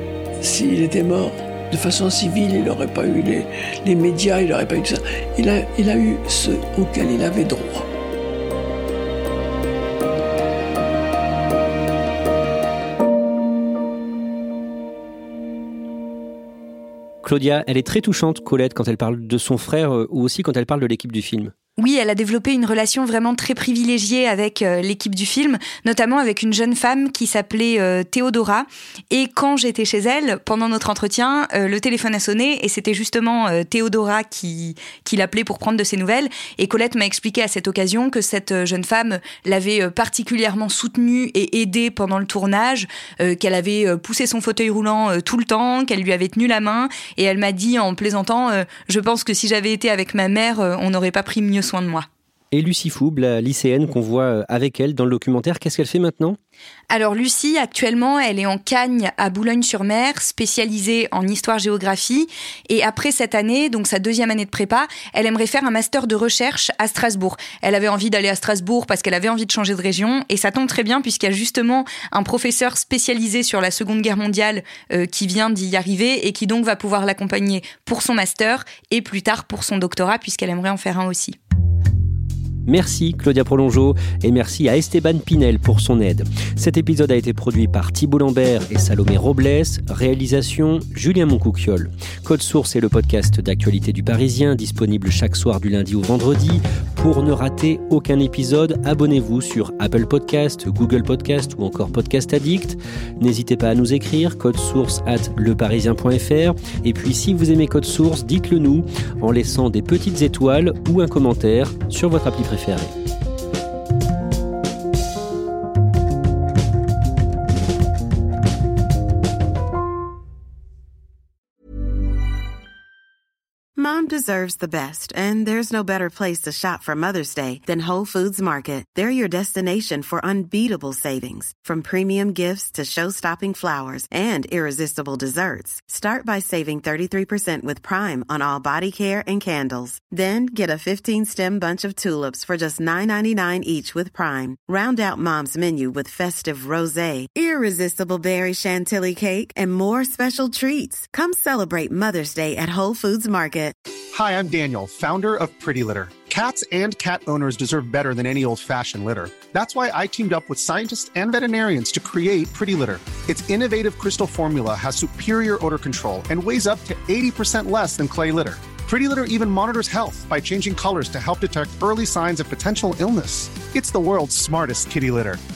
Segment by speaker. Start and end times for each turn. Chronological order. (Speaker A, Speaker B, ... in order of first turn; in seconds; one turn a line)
Speaker A: 0.4-7.9
Speaker B: 17.2-21.5
Speaker C: 21.8-52.0
Speaker B: 52.5-56.4
Speaker C: 56.9-81.4
Speaker B: 82.7-112.9
Speaker D: 123.8-153.7
Speaker E: 154.1-175.4